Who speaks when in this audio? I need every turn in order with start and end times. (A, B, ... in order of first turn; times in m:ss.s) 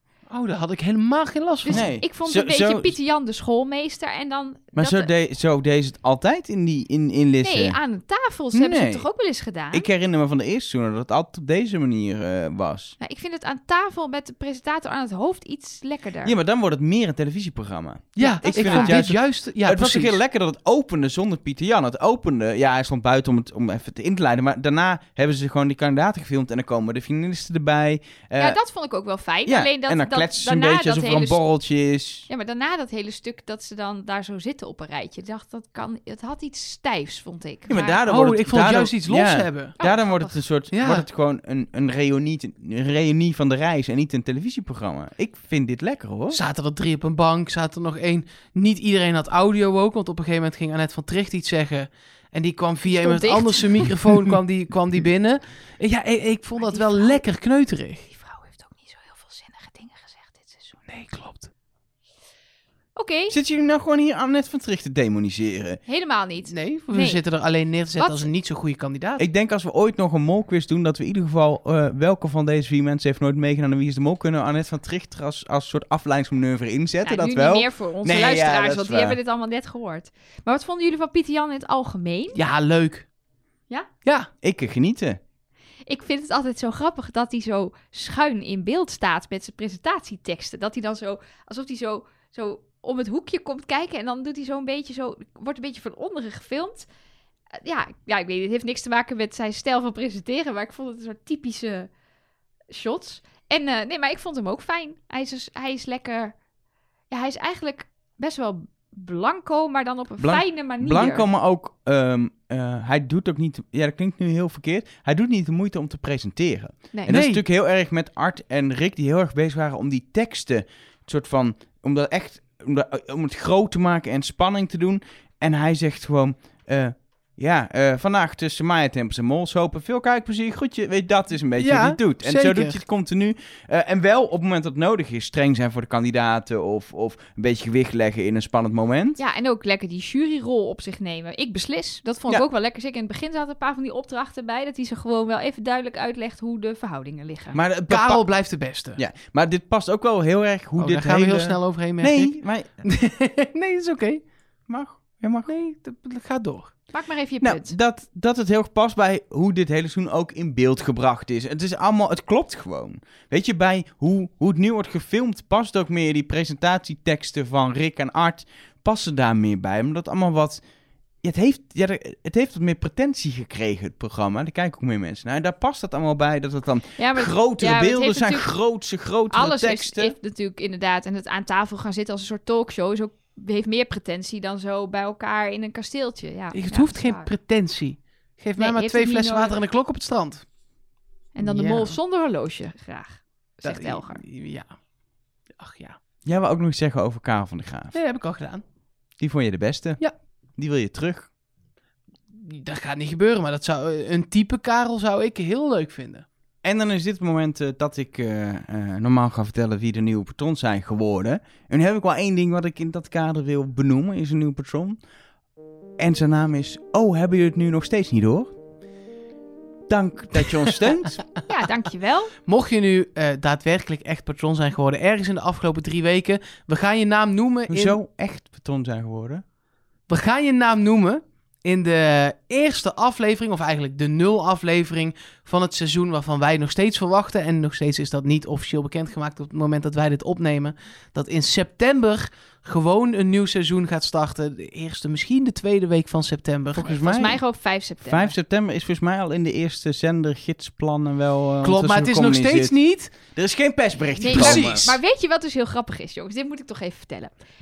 0:00.3-0:01.9 A
0:01.6-0:05.1 B
0:01.7-0:02.9 C
0:04.8-0:07.8 C
0:07.4-0:09.9 B
0:08.5-0:09.0 C
0:09.7-0:13.0 C
0:13.0-0:16.3 B
0:16.2-0:28.6 C
0:18.2-0:20.2 A
0:18.2-0:19.1 B
0:28.4-0:31.4 B
0:29.4-0:32.3 C
0:32.3-0:38.0 B
0:37.7-0:46.4 C
0:38.0-0:39.8 A
0:39.8-0:40.4 B
0:40.7-0:41.0 A
0:46.3-0:58.0 A
0:52.8-0:53.8 B
0:56.6-0:57.2 B
0:58.1-1:00.8 B
1:00.9-1:01.5 A
1:03.0-1:03.3 B
1:03.3-1:05.8 C
1:05.8-1:07.2 B
1:06.5-1:09.2 A
1:08.0-1:08.2 B
1:09.2-1:19.2 C
1:17.0-1:22.4 B
1:22.3-1:23.1 A
1:24.4-1:25.2 C
1:25.8-1:36.9 B
1:37.6-1:41.9 B
1:42.7-1:46.4 B
1:47.1-1:51.2 B
1:50.2-2:19.2 C
1:57.1-1:57.4 A
2:11.6-2:12.8 A
2:19.2-2:27.6 B
2:27.5-2:28.2 C
2:27.9-2:29.0 A
2:29.0-2:32.8 C
2:30.8-2:34.2 A
2:34.7-2:35.5 C
2:35.5-2:36.8 A
2:36.9-2:37.7 B
2:37.4-2:50.6 C
2:51.2-3:00.1 C
2:57.0-2:58.5 B
2:59.3-3:07.3 B
3:06.5-3:10.4 A
3:08.6-3:09.6 B
3:11.3-3:14.2 B
3:11.4-3:12.0 A
3:13.6-3:14.8 A
3:15.6-3:16.0 A
3:16.2-3:18.0 C
3:17.9-3:18.6 A
3:19.2-3:20.0 C
3:20.6-3:21.3 C
3:22.3-3:26.2 A
3:26.6-3:35.0 C
3:36.0-3:38.5 C
3:39.9-3:41.2 C
3:41.5-3:42.3 B
3:42.4-3:48.0 A
3:47.7-3:49.4 C
3:50.1-4:06.8 A
4:06.8-4:07.4 C
4:06.8-4:08.4 B
4:08.0-4:14.9 C
4:11.6-4:13.1 A
4:14.2-4:17.3 B
4:14.2-4:14.8 A